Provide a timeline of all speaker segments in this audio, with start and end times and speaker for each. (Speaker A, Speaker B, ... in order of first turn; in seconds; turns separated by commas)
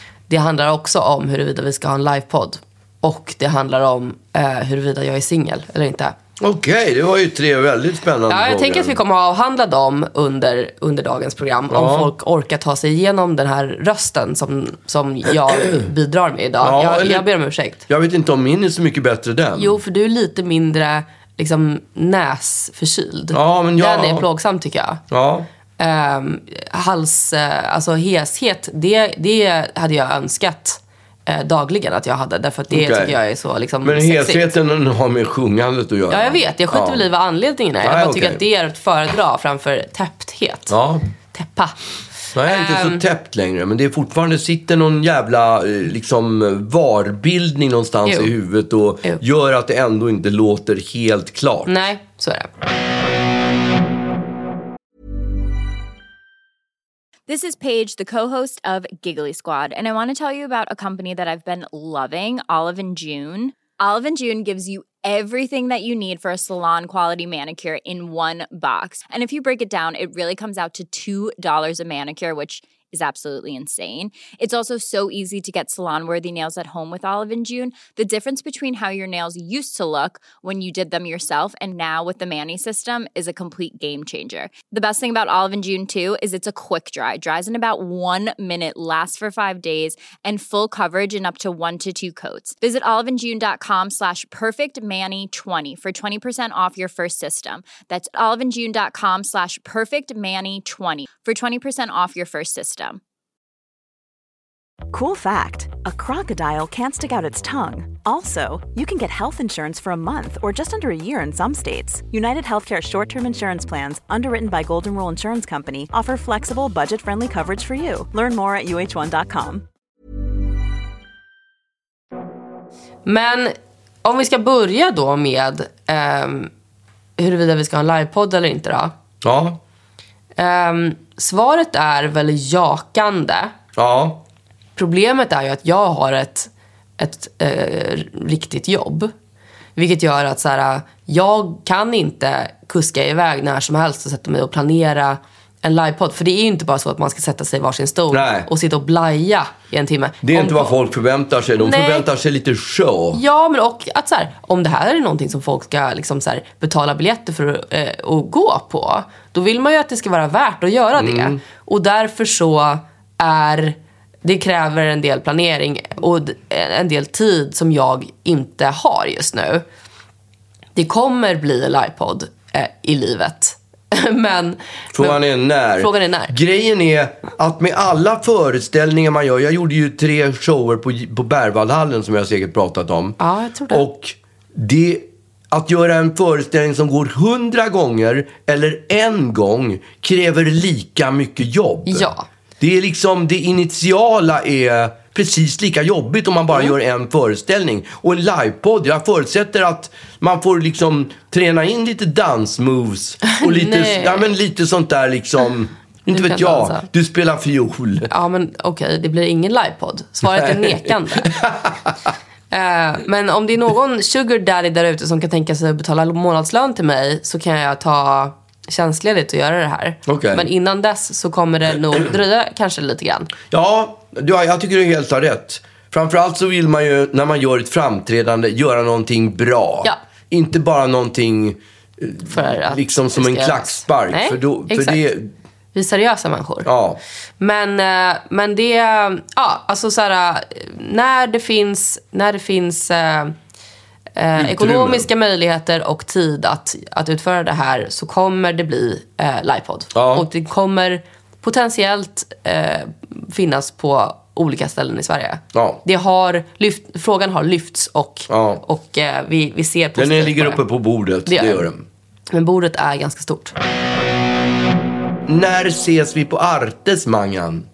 Speaker A: 0.3-6.1, Speaker B: 6.4-9.0, Speaker A: 8.3-17.8, Speaker B: 11.7-12.1, Speaker B: 15.5-15.9, Speaker B: 16.6-17.3, Speaker B: 17.9-19.8, Speaker A: 19.6-25.0, Speaker B: 23.3-24.3, Speaker B: 25.1-25.5, Speaker A: 25.8-34.5, Speaker B: 32.7-33.2, Speaker B: 33.8-37.1, Speaker A: 36.1-40.7, Speaker B: 37.8-38.4, Speaker B: 40.7-41.1, Speaker A: 41.3-41.7, Speaker B: 42.4-51.8, Speaker A: 42.5-43.0, Speaker A: 48.1-48.3, Speaker A: 51.7-52.5, Speaker C: 57.3-103.0, Speaker D: 104.9-119.7, Speaker A: 123.1-126.5, Speaker A: 127.2-128.9, Speaker B: 129.2-129.6, Speaker A: 130.4-133.5, Speaker B: 133.8-134.2, Speaker A: 134.8-139.1, Speaker A: 139.8-150.8, Speaker B: 148.1-148.5, Speaker B: 150.2-153.2, Speaker A: 151.6-152.1, Speaker A: 153.1-169.6, Speaker B: 161.0-161.4, Speaker A: 170.8-175.2, Speaker B: 174.9-183.2, Speaker A: 175.8-176.3, Speaker A: 183.2-183.9, Speaker B: 183.7-208.1, Speaker A: 191.9-192.3, Speaker A: 203.2-204.3, Speaker A: 206.1-206.9, Speaker A: 208.1-211.3, Speaker B: 210.3-211.9, Speaker A: 212.5-223.3, Speaker B: 220.1-220.5, Speaker B: 223.5-235.3, Speaker A: 232.3-235.0, Speaker A: 235.7-236.7, Speaker B: 236.7-237.0, Speaker A: 237.4-243.3, Speaker A: 244.2-260.6, Speaker B: 244.4-245.1, Speaker B: 249.9-250.3, Speaker B: 255.5-255.8, Speaker B: 258.3-258.6, Speaker B: 260.0-261.9, Speaker A: 261.3-261.7, Speaker A: 262.3-263.5, Speaker B: 265.2-267.7